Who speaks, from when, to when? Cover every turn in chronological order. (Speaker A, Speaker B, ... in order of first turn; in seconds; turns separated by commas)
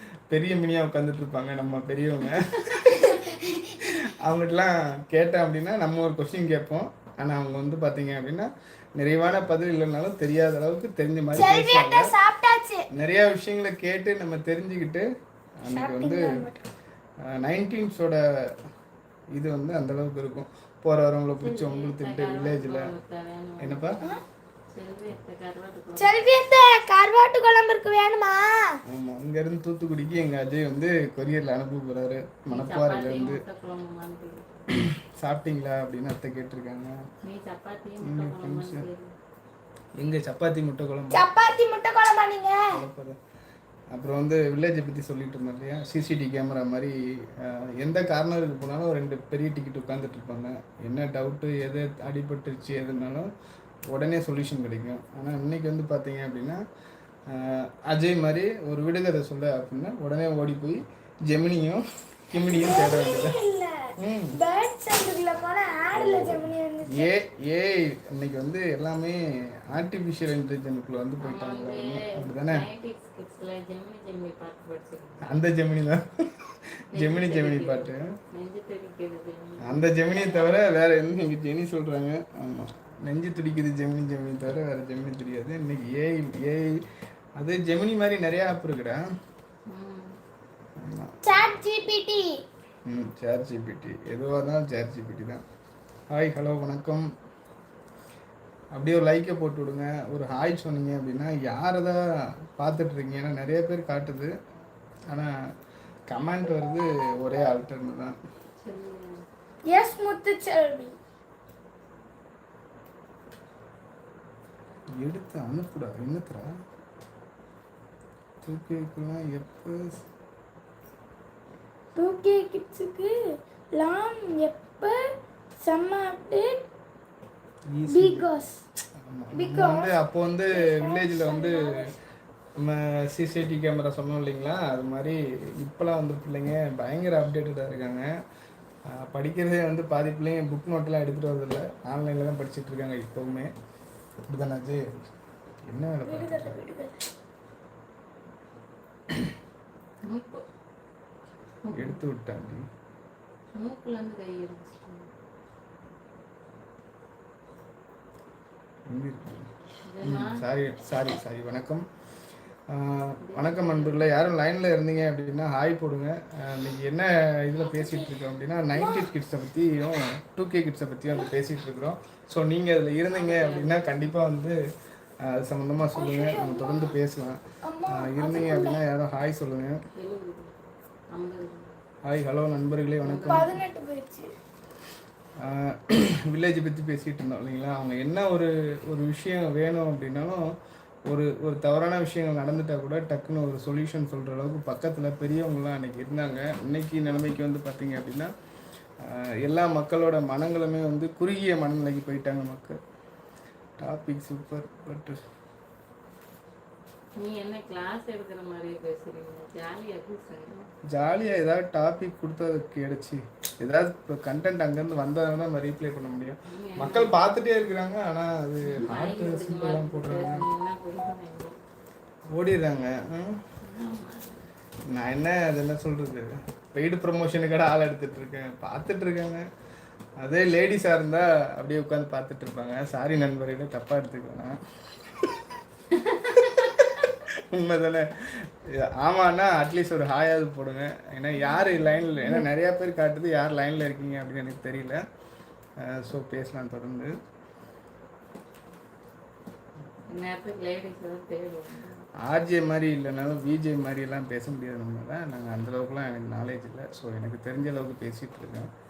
Speaker A: 0.3-3.2, Speaker B: 2.9-3.8, Speaker A: 3.8-12.1, Speaker B: 11.3-12.9, Speaker A: 12.9-15.1, Speaker A: 15.6-16.5, Speaker B: 15.7-16.6, Speaker A: 17.2-18.2, Speaker A: 19.4-22.9, Speaker C: 21.4-24.0, Speaker A: 23.6-24.0, Speaker C: 24.7-26.2, Speaker B: 26.0-28.8, Speaker A: 28.9-33.4, Speaker C: 32.5-34.6, Speaker A: 34.8-37.0, Speaker C: 37.2-39.1, Speaker A: 38.0-38.9, Speaker A: 40.0-41.2, Speaker B: 41.1-42.7, Speaker A: 42.7-43.2, Speaker A: 43.9-53.3, Speaker A: 53.9-56.6, Speaker A: 57.3-63.4, Speaker B: 62.4-67.1, Speaker A: 64.0-64.4, Speaker A: 66.0-69.2, Speaker A: 69.7-72.7, Speaker C: 71.2-75.3, Speaker A: 75.2-78.1, Speaker C: 76.9-79.9, Speaker A: 79.6-86.8, Speaker A: 87.4-89.0, Speaker C: 89.7-90.2, Speaker A: 90.8-91.1, Speaker B: 91.2-92.4, Speaker A: 92.9-95.4, Speaker A: 96.1-97.1, Speaker A: 98.8-102.0, Speaker A: 102.6-104.3, Speaker A: 106.1-108.2, Speaker C: 108.6-109.2, Speaker B: 109.7-111.0, Speaker A: 115.0-116.5, Speaker A: 118.4-120.0, Speaker B: 122.0-123.2, Speaker B: 123.7-125.0, Speaker B: 125.6-126.7, Speaker A: 127.7-128.3, Speaker B: 127.9-128.6, Speaker A: 129.0-131.8, Speaker B: 129.3-129.9, Speaker B: 130.5-131.8, Speaker A: 132.6-138.1, Speaker A: 138.9-143.5, Speaker A: 144.3-145.0, Speaker A: 145.7-146.6, Speaker B: 146.1-147.0, Speaker C: 150.0-150.4, Speaker C: 151.6-152.0, Speaker A: 151.7-152.6, Speaker C: 153.5-155.1, Speaker A: 158.9-159.5, Speaker C: 159.9-160.4, Speaker A: 160.0-161.9, Speaker A: 162.7-174.6, Speaker C: 163.2-164.1, Speaker B: 167.6-168.2, Speaker B: 168.7-169.1, Speaker C: 173.1-174.1, Speaker A: 175.2-179.8, Speaker B: 175.9-177.0, Speaker B: 177.6-178.8, Speaker C: 179.9-180.5, Speaker C: 181.1-181.7, Speaker A: 182.1-183.6, Speaker C: 183.0-183.6, Speaker B: 183.3-184.3, Speaker A: 185.4-190.4, Speaker A: 191.1-198.3, Speaker A: 199.0-202.8, Speaker A: 203.8-205.2, Speaker C: 207.2-210.7, Speaker A: 210.9-220.4, Speaker C: 216.5-217.2, Speaker C: 218.6-221.6, Speaker A: 222.3-223.4, Speaker C: 223.6-224.4, Speaker A: 224.9-229.4, Speaker A: 230.2-234.6, Speaker C: 235.9-236.9, Speaker A: 236.4-245.0, Speaker C: 241.4-242.4, Speaker A: 245.8-247.1, Speaker C: 250.1-252.1, Speaker A: 252.2-258.7